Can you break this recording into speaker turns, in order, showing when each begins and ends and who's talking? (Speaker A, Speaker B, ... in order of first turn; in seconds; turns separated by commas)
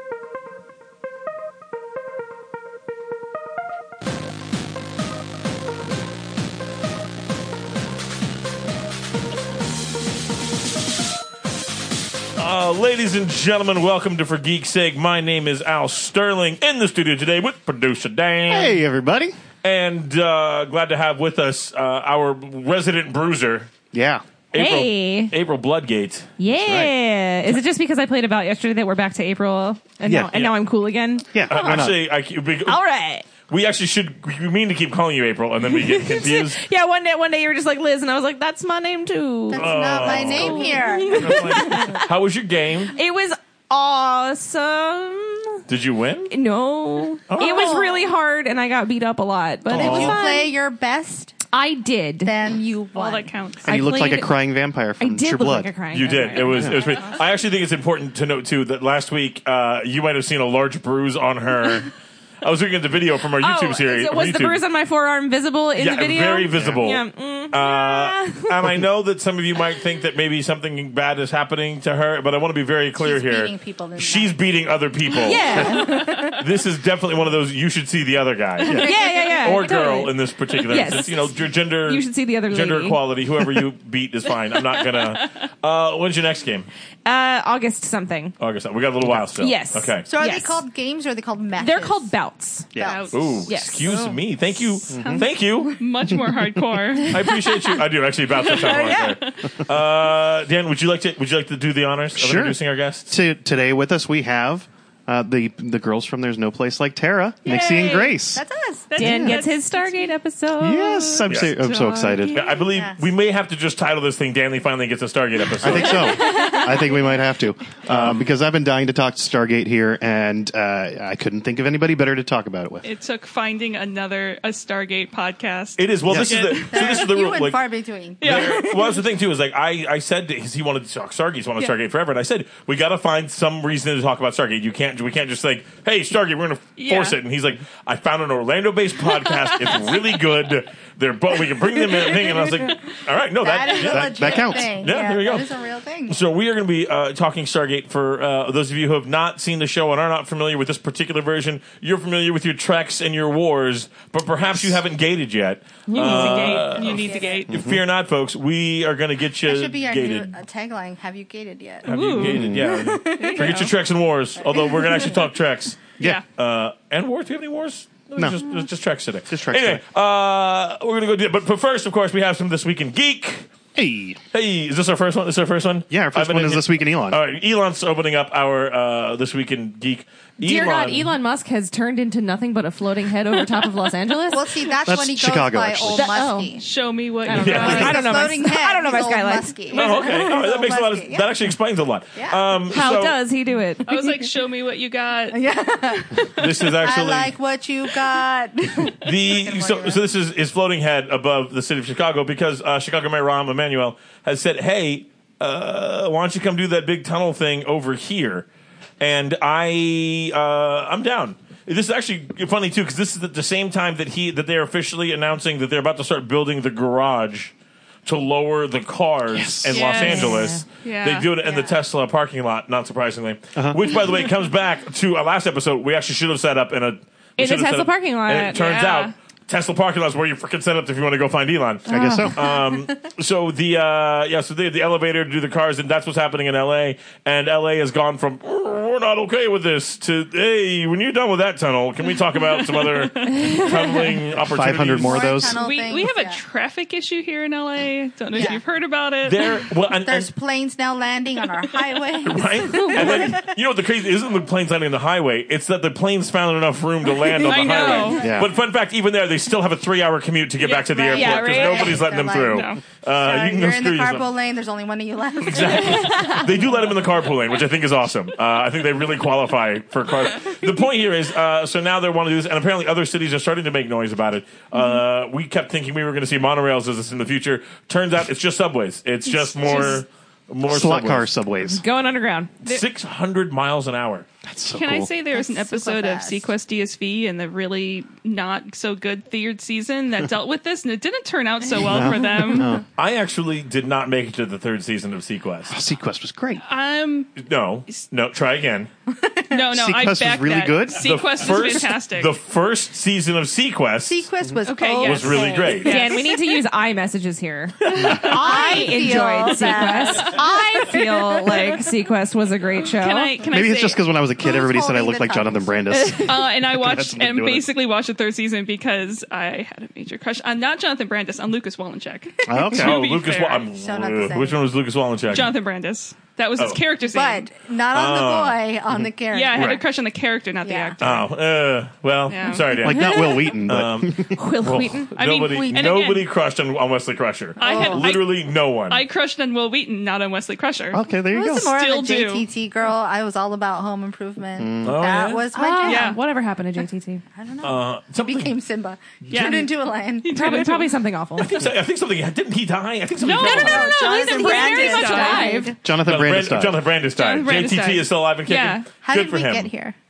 Speaker A: 12.4-18.8, Speaker B: 18.5-19.4, Speaker A: 19.6-23.7, Speaker B: 23.9-24.2, Speaker A: 24.5-26.4, Speaker C: 24.5-25.4, Speaker C: 26.4-31.3, Speaker B: 26.6-26.9, Speaker B: 30.1-30.3, Speaker B: 31.3-31.9, Speaker A: 31.4-32.8, Speaker C: 32.6-33.3, Speaker A: 33.5-36.6, Speaker C: 35.7-42.1, Speaker D: 39.5-41.8, Speaker A: 39.5-43.0, Speaker E: 40.4-40.7, Speaker C: 42.9-45.6, Speaker A: 45.7-46.3, Speaker C: 46.3-50.5, Speaker A: 47.3-47.8, Speaker D: 47.4-48.1, Speaker A: 49.7-50.2, Speaker D: 49.7-51.4, Speaker C: 51.5-52.3, Speaker D: 52.2-53.3, Speaker E: 53.0-54.0, Speaker C: 53.6-54.5, Speaker B: 53.6-55.7, Speaker C: 55.0-57.1, Speaker A: 55.9-61.9, Speaker B: 56.5-56.8, Speaker A: 62.4-64.6, Speaker C: 63.4-68.6, Speaker A: 65.8-86.7, Speaker B: 66.6-66.8, Speaker D: 73.0-74.7, Speaker C: 75.2-76.3, Speaker D: 75.3-76.3, Speaker C: 78.8-81.3, Speaker D: 78.8-79.5, Speaker C: 81.8-83.0, Speaker E: 84.8-85.2, Speaker C: 87.0-88.3, Speaker A: 88.4-90.1, Speaker C: 89.4-90.6, Speaker D: 90.1-92.1, Speaker C: 91.6-94.2, Speaker B: 92.7-93.0, Speaker D: 92.8-93.4, Speaker E: 92.8-93.3, Speaker A: 93.1-95.8, Speaker B: 94.9-95.2, Speaker E: 95.0-97.3, Speaker A: 97.1-103.1, Speaker E: 98.4-99.5, Speaker C: 98.7-99.0, Speaker B: 102.2-108.4, Speaker E: 107.5-108.2, Speaker D: 108.3-109.4, Speaker E: 108.9-110.1, Speaker C: 109.0-112.4, Speaker B: 109.0-109.4, Speaker B: 110.6-112.4, Speaker A: 111.3-111.5, Speaker A: 112.3-116.2, Speaker D: 112.4-113.0, Speaker B: 115.6-122.9, Speaker C: 116.1-117.0, Speaker A: 117.8-118.3, Speaker E: 122.8-127.1, Speaker A: 125.8-127.7, Speaker B: 126.1-126.5, Speaker D: 126.7-129.0, Speaker A: 128.2-160.3, Speaker E: 128.2-128.8, Speaker E: 136.8-137.2, Speaker E: 139.4-140.0, Speaker D: 143.4-146.2, Speaker B: 143.8-144.9, Speaker C: 155.9-156.9, Speaker E: 156.8-157.5, Speaker D: 156.8-157.5, Speaker B: 157.5-157.8, Speaker D: 159.4-163.7, Speaker A: 161.8-165.8, Speaker C: 161.9-162.4, Speaker E: 161.9-162.3, Speaker B: 162.2-162.7, Speaker E: 163.2-163.7, Speaker D: 164.4-165.2, Speaker A: 166.4-173.5, Speaker B: 169.3-169.8, Speaker B: 173.8-174.2, Speaker A: 174.3-181.1, Speaker B: 175.9-177.2, Speaker C: 180.4-184.6, Speaker D: 184.3-186.6, Speaker B: 184.9-186.1, Speaker C: 185.9-186.6, Speaker E: 186.6-188.3, Speaker C: 187.3-189.8, Speaker D: 187.3-191.3, Speaker A: 187.3-188.0, Speaker A: 189.7-193.2, Speaker D: 192.2-192.9, Speaker C: 192.7-194.0, Speaker E: 193.9-195.4, Speaker D: 195.3-200.1, Speaker E: 195.9-196.3, Speaker A: 196.4-197.3, Speaker A: 199.0-208.5, Speaker A: 209.0-217.5, Speaker A: 218.1-245.4, Speaker B: 219.3-219.9, Speaker E: 219.7-221.3, Speaker C: 219.9-220.7, Speaker D: 221.4-221.8, Speaker C: 227.4-228.7, Speaker E: 228.5-229.1, Speaker B: 231.9-232.4, Speaker E: 242.7-243.4, Speaker B: 244.4-245.6, Speaker D: 245.0-246.4, Speaker E: 245.4-249.5, Speaker D: 248.3-248.6, Speaker A: 249.2-250.3, Speaker D: 250.1-253.5, Speaker A: 252.2-264.3, Speaker E: 252.8-253.1, Speaker E: 257.3-258.3, Speaker B: 258.2-258.5, Speaker D: 260.6-266.4, Speaker C: 261.1-262.1, Speaker E: 262.5-262.8, Speaker A: 265.4-281.3, Speaker C: 266.1-266.4, Speaker E: 279.4-280.0, Speaker B: 280.7-281.8, Speaker C: 281.6-282.5, Speaker A: 282.6-284.3, Speaker B: 284.4-285.1, Speaker E: 284.7-292.8, Speaker D: 285.3-286.5, Speaker B: 291.8-292.9, Speaker A: 293.0-295.7, Speaker B: 295.7-296.6, Speaker E: 296.6-297.4, Speaker A: 297.4-298.9, Speaker E: 299.5-302.3, Speaker B: 299.7-301.7, Speaker A: 301.0-304.3, Speaker D: 304.1-306.2, Speaker E: 304.6-306.4, Speaker A: 305.0-306.1, Speaker C: 305.4-313.4, Speaker D: 308.1-311.9, Speaker E: 309.9-310.4, Speaker E: 312.9-314.0, Speaker B: 313.5-317.7, Speaker D: 314.4-316.1, Speaker C: 315.9-316.3, Speaker E: 316.2-323.7, Speaker B: 322.5-323.0, Speaker A: 322.7-325.5, Speaker D: 323.7-324.6, Speaker E: 325.3-327.5, Speaker A: 326.6-326.8, Speaker D: 327.0-329.8, Speaker A: 327.9-328.6, Speaker B: 328.9-329.8, Speaker E: 329.3-331.2, Speaker D: 330.6-331.0, Speaker A: 331.0-339.0, Speaker E: 332.3-332.8, Speaker B: 332.8-334.4, Speaker C: 332.9-333.4, Speaker C: 334.3-335.9, Speaker E: 335.2-336.2, Speaker D: 335.7-336.1, Speaker E: 337.6-341.0, Speaker D: 337.6-338.1, Speaker B: 340.9-341.7, Speaker D: 341.3-346.2, Speaker E: 341.6-342.5, Speaker B: 344.6-345.0, Speaker A: 344.8-345.5, Speaker C: 345.5-347.2, Speaker E: 345.9-346.2, Speaker D: 347.3-350.3, Speaker A: 347.6-348.6, Speaker E: 349.3-349.7, Speaker E: 350.2-350.9, Speaker C: 350.3-351.6, Speaker A: 351.4-354.1, Speaker E: 353.2-355.7, Speaker D: 353.3-355.8, Speaker C: 354.0-355.8, Speaker B: 355.8-356.8, Speaker A: 356.0-359.7, Speaker E: 357.2-358.9, Speaker D: 359.0-360.0